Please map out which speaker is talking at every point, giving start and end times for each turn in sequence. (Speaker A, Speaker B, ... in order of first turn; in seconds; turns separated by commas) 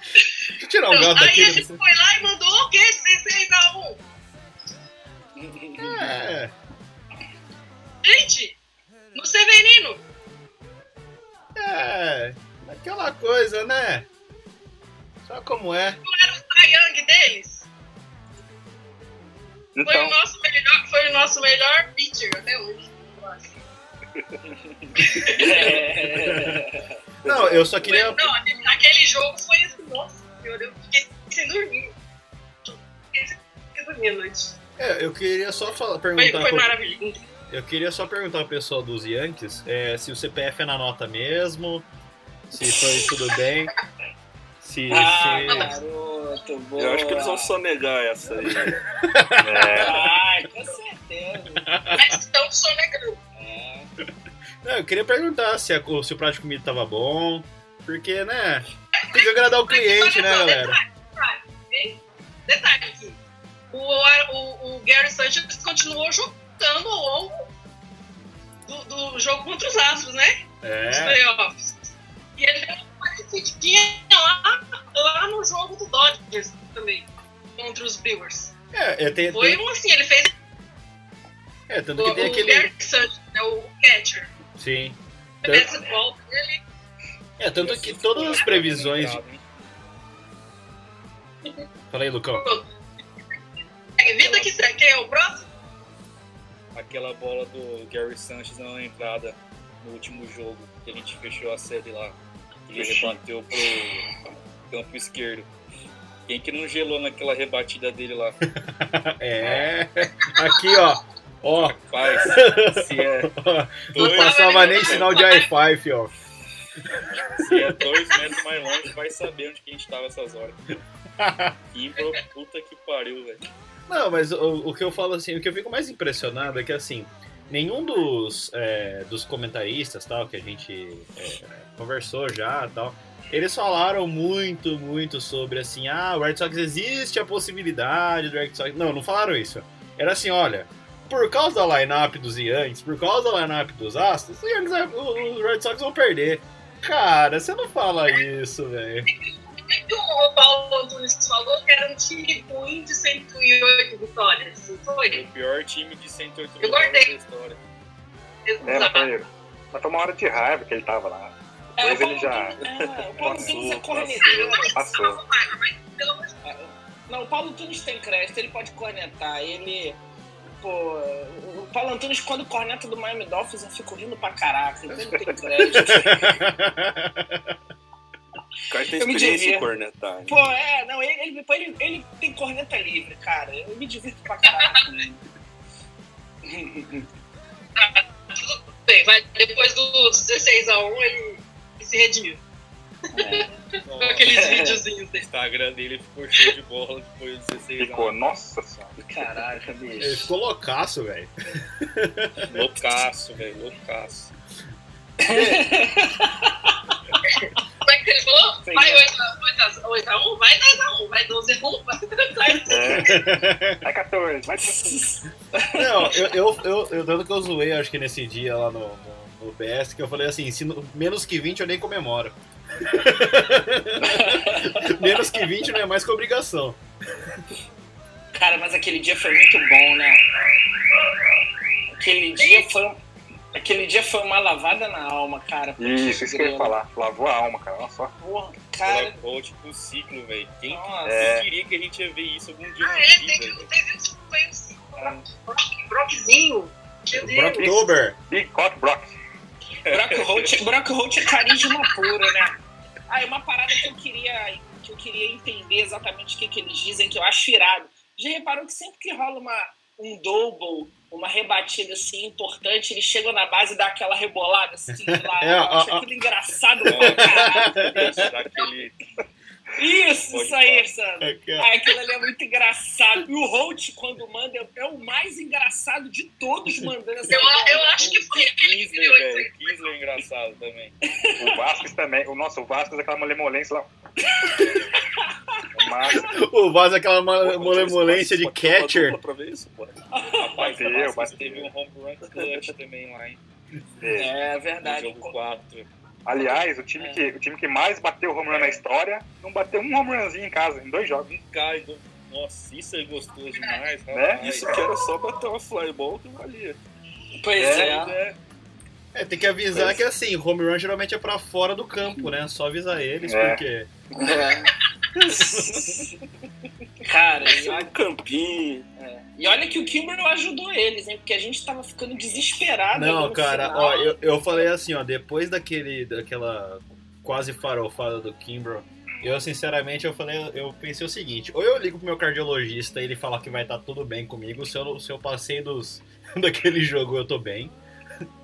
Speaker A: 0.5-1.8, Speaker B: 0.9-4.0, Speaker C: 5.4-6.1, Speaker A: 5.8-6.5, Speaker B: 8.0-8.6, Speaker B: 9.1-10.0, Speaker A: 11.6-14.1, Speaker A: 15.2-16.0, Speaker B: 16.0-17.7, Speaker D: 19.8-20.2, Speaker B: 19.9-23.6, Speaker C: 24.9-27.0, Speaker B: 25.0-25.8, Speaker A: 26.0-26.7, Speaker A: 27.2-28.4, Speaker E: 27.3-27.7, Speaker B: 27.8-31.9, Speaker B: 32.7-34.5, Speaker A: 34.8-36.8, Speaker B: 36.2-37.2, Speaker A: 37.5-41.9, Speaker A: 42.5-43.7, Speaker A: 44.6-45.7, Speaker C: 44.9-47.5, Speaker B: 45.5-45.7, Speaker E: 46.8-48.8, Speaker A: 49.0-49.9, Speaker D: 49.4-50.1, Speaker C: 49.8-51.7, Speaker A: 51.6-52.2, Speaker B: 51.9-53.2, Speaker C: 53.4-53.9, Speaker A: 54.6-60.8, Speaker B: 59.0-63.2, Speaker B: 63.7-67.5, Speaker B: 68.7-71.7, Speaker A: 70.6-71.2, Speaker B: 72.4-78.5, Speaker A: 78.7-79.6, Speaker B: 79.3-80.3, Speaker A: 81.7-82.7, Speaker B: 82.0-84.3, Speaker A: 84.6-85.8, Speaker B: 85.4-86.6, Speaker A: 87.4-89.2, Speaker F: 87.5-89.4, Speaker A: 91.9-92.5, Speaker B: 92.4-92.7, Speaker B: 94.0-95.5, Speaker F: 94.0-94.5, Speaker F: 96.8-104.1, Speaker F: 104.7-105.5, Speaker F: 106.3-108.4, Speaker A: 108.5-116.1, Speaker F: 111.5-113.3, Speaker F: 113.9-115.4, Speaker B: 114.0-115.5, Speaker F: 117.4-120.6, Speaker A: 121.2-121.5, Speaker F: 121.7-123.4, Speaker A: 123.9-149.1, Speaker B: 149.1-155.2, Speaker F: 155.1-157.6, Speaker B: 156.6-157.1, Speaker B: 158.5-159.1, Speaker D: 158.6-165.2, Speaker C: 161.8-164.8, Speaker E: 163.2-164.6, Speaker B: 164.9-166.3, Speaker C: 166.4-170.0, Speaker C: 170.6-176.4, Speaker A: 175.7-177.5, Speaker E: 178.7-180.4, Speaker C: 179.0-179.7, Speaker C: 180.3-185.2, Speaker C: 186.5-187.1, Speaker B: 187.8-192.4, Speaker B: 193.1-193.5, Speaker C: 193.1-193.5, Speaker F: 193.8-194.4, Speaker B: 194.0-195.3, Speaker C: 194.3-194.8, Speaker F: 195.2-198.2, Speaker D: 197.8-198.9, Speaker C: 199.0-200.3, Speaker A: 200.0-202.5, Speaker F: 202.5-204.3, Speaker C: 205.2-207.0, Speaker A: 205.3-205.6, Speaker B: 207.2-213.1, Speaker C: 208.6-209.1, Speaker C: 212.4-212.7, Speaker D: 212.7-213.3, Speaker A: 212.8-213.8, Speaker D: 213.8-215.0, Speaker C: 214.5-216.3, Speaker A: 215.7-222.3, Speaker A: 222.9-226.8, Speaker C: 224.0-225.0, Speaker C: 228.3-230.2, Speaker C: 231.9-233.0, Speaker C: 233.6-236.8, Speaker D: 235.8-238.1, Speaker C: 238.2-239.2, Speaker F: 238.8-243.7, Speaker C: 240.7-241.3, Speaker D: 241.1-241.5, Speaker B: 242.8-247.9, Speaker A: 247.1-248.2, Speaker D: 248.3-249.2, Speaker C: 249.9-252.6, Speaker F: 249.9-250.5, Speaker C: 253.1-268.2, Speaker A: 265.1-266.1, Speaker A: 266.9-268.3, Speaker F: 266.9-269.0, Speaker C: 269.8-278.4, Speaker F: 270.3-270.9, Speaker A: 271.2-271.7, Speaker B: 277.3-279.5, Speaker F: 278.6-280.9, Speaker C: 281.1-281.7, Speaker D: 281.4-283.9, Speaker C: 284.2-285.7, Speaker D: 285.7-286.4, Speaker A: 286.1-289.2, Speaker E: 287.4-290.0, Speaker C: 290.1-290.7, Speaker F: 290.4-293.4, Speaker D: 290.6-291.7, Speaker E: 292.3-292.6, Speaker D: 294.0-294.4, Speaker C: 294.1-295.4, Speaker F: 294.8-295.9, Speaker D: 296.2-301.3, Speaker C: 297.0-297.3, Speaker F: 301.3-304.9, Speaker D: 304.1-304.8, Speaker E: 304.4-306.8, Speaker C: 307.4-308.1, Speaker D: 307.6-308.0, Speaker F: 307.7-308.1, Speaker A: 309.1-313.9, Speaker D: 313.2-313.6, Speaker C: 314.1-314.7, Speaker A: 315.1-316.1, Speaker C: 315.3-316.1, Speaker C: 317.0-317.9, Speaker E: 317.4-318.9, Speaker C: 319.0-324.7, Speaker A: 322.9-337.8